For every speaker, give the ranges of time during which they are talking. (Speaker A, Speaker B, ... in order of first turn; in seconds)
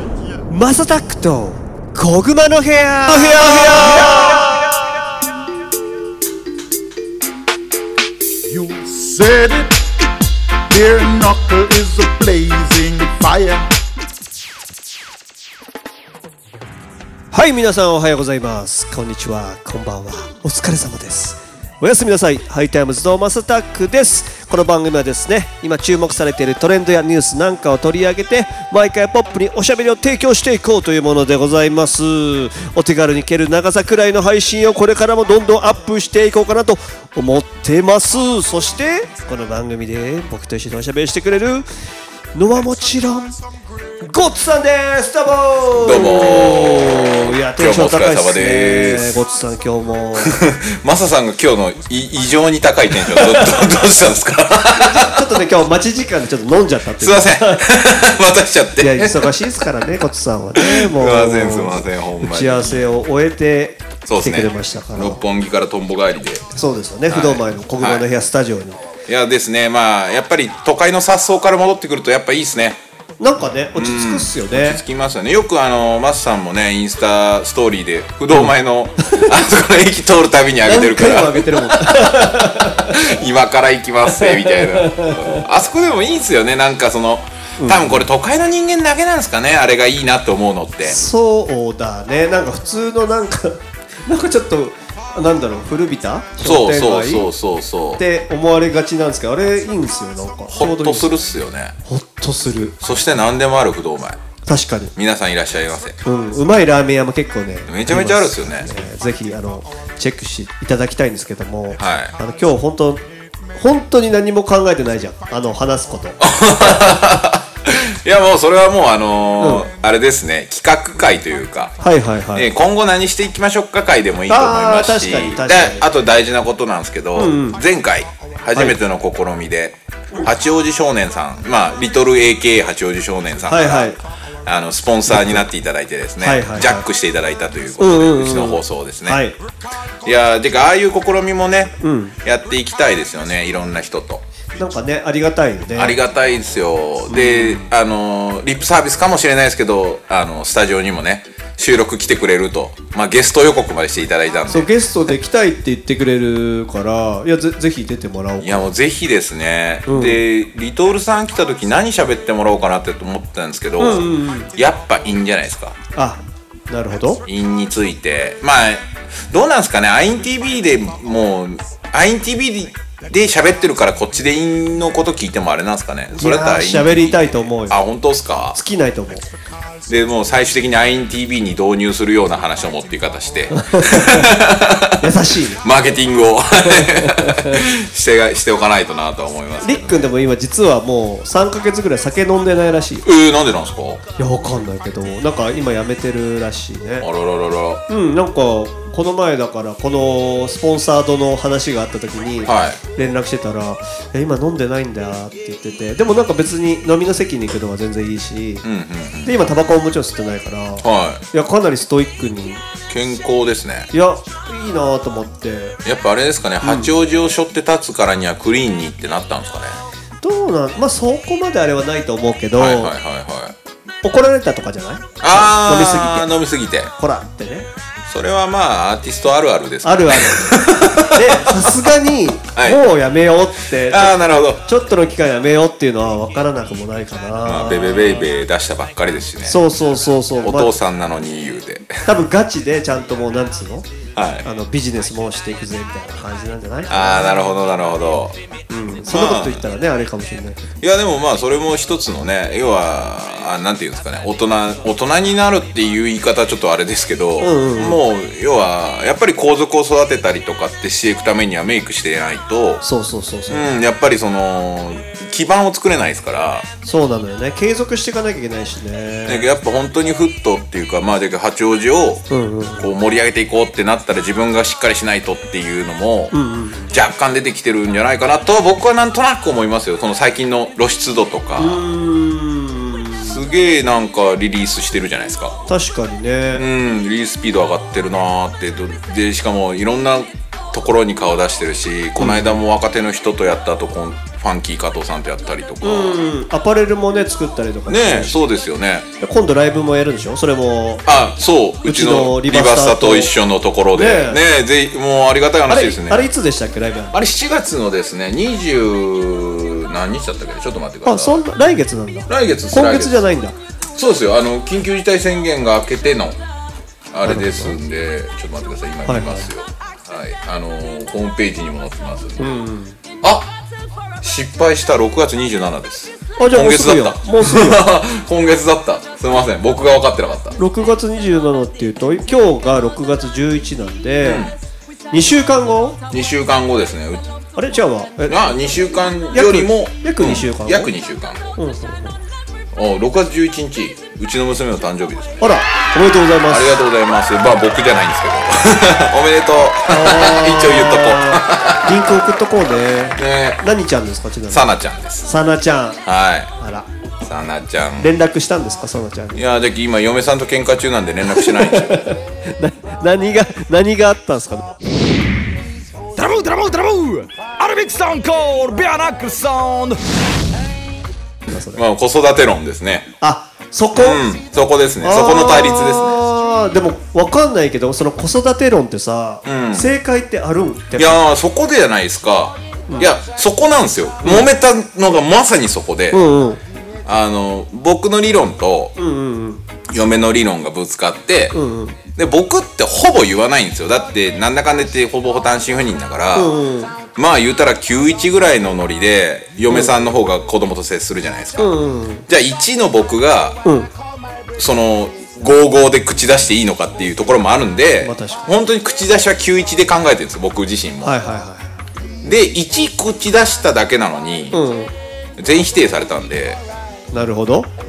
Speaker A: 0.5-4.6, 17.3-41.7, 42.4-43.4, 44.0-50.4, 54.8-57.6, 58.8-65.2, 66.5-68.8, 73.2-74.8, 78.3-79.3, 80.6-83.2, 84.1-85.5, 87.6-88.0, 90.9-97.3, 98.0-101.1, 101.8-102.8, 104.5-104.9, 106.0-113.0, 113.5-116.8, 119.4-119.7, 121.8-122.5, 124.3-125.8, 127.2-127.6, 133.5-134.0, 135.1-135.4, 136.2-136.9, 137.8-139.4, 141.8-142.2, 144.6-146.0, 147.1-147.7, 154.5-158.7, 159.9-160.2, 163.8-164.5, 166.0-167.2, 176.1-177.8, 178.5-179.3, 183.5-184.4, 185.0-185.7, 186.7-187.6, 189.6-193.1, 194.2-197.1, 197.9-208.6, 209.2-212.6, 213.9-215.8, 216.6-216.9, 220.2-222.9, 224.0-226.3, 227.0-227.7, 229.8-238.3, 239.4-240.7, 242.1-243.9, 244.4-247.4, 248.7-250.6, 257.4-258.0, 262.8-263.7, 266.8-269.5, 272.3-272.9, 276.3-276.9, 281.6-283.4, 285.7-286.6, 292.2-292.6, 295.8-298.4, 299.2-301.1, 301.9-303.3, 303.9-304.4, 305.7-307.1, 311.0-313.6, 317.2-317.8, 319.1-319.5, 322.4-323.0, 326.4-327.9, 330.6-334.5, 335.1-336.0, 337.6-338.8, 339.3-340.9, 341.6-342.2, 345.4-346.8, 349.9-354.7, 355.2-356.0, 356.6-356.9, 358.0-359.4, 361.3-364.8, 371.5-371.8, 373.2-374.2, 375.0-381.2, 382.9-383.1, 384.2-384.5, 386.1-386.6, 389.0-389.6, 391.5-392.0, 396.3-397.0, 401.6-402.3, 403.6-403.9, 408.0-408.5, 411.0-411.8, 414.5-414.9, 417.1-417.7
Speaker B: 3.7-4.5, 8.5-9.9, 10.7-13.7
Speaker C: 45.8-49.2, 50.2-55.4, 57.0-59.3, 60.6-63.0, 64.1-66.5, 67.1-68.0, 69.1-72.8, 73.8-91.0, 96.4-98.0, 100.5-101.8, 102.8-104.2, 105.0-106.0, 107.7-108.7, 111.8-112.2, 116.2-121.8, 122.3-139.2, 140.1-144.2, 145.8-154.7, 158.4-165.8, 167.3-178.6, 179.9-190.1, 193.0-194.0, 197.0-197.8, 202.5-202.8, 208.6-209.4, 210.8-211.2, 212.9-213.9, 215.8-219.8, 222.6-223.6, 225.2-226.9, 228.1-231.8, 232.5-232.8, 233.9-234.6, 237.4-239.6, 240.4-242.1, 244.2-244.5, 246.9-248.4, 249.1-249.6, 250.8-262.8, 263.5-266.7, 269.3-272.3, 272.8-276.3, 276.9-281.8, 283.2-285.6, 286.5-296.2, 297.9-299.1, 301.1-306.3, 307.1-311.4, 312.3-313.2, 313.9-316.4, 317.1-322.4, 323.2-323.5, 324.2-330.6, 334.2-334.6, 336.1-337.2, 338.3-341.6, 342.7-345.4, 346.5-352.1, 353.2-353.6, 354.5-355.3, 356.0-356.5, 357.2-358.1, 359.4-362.1, 371.7-373.1, 373.9-376.2, 379.4-379.9, 381.0-386.2, 387.1-388.9, 389.9-391.6, 392.1-396.6, 397.2-401.7, 402.3-403.6, 404.6-411.1, 412.2-414.6, 415.4-416.6
Speaker D: 366.2-370.0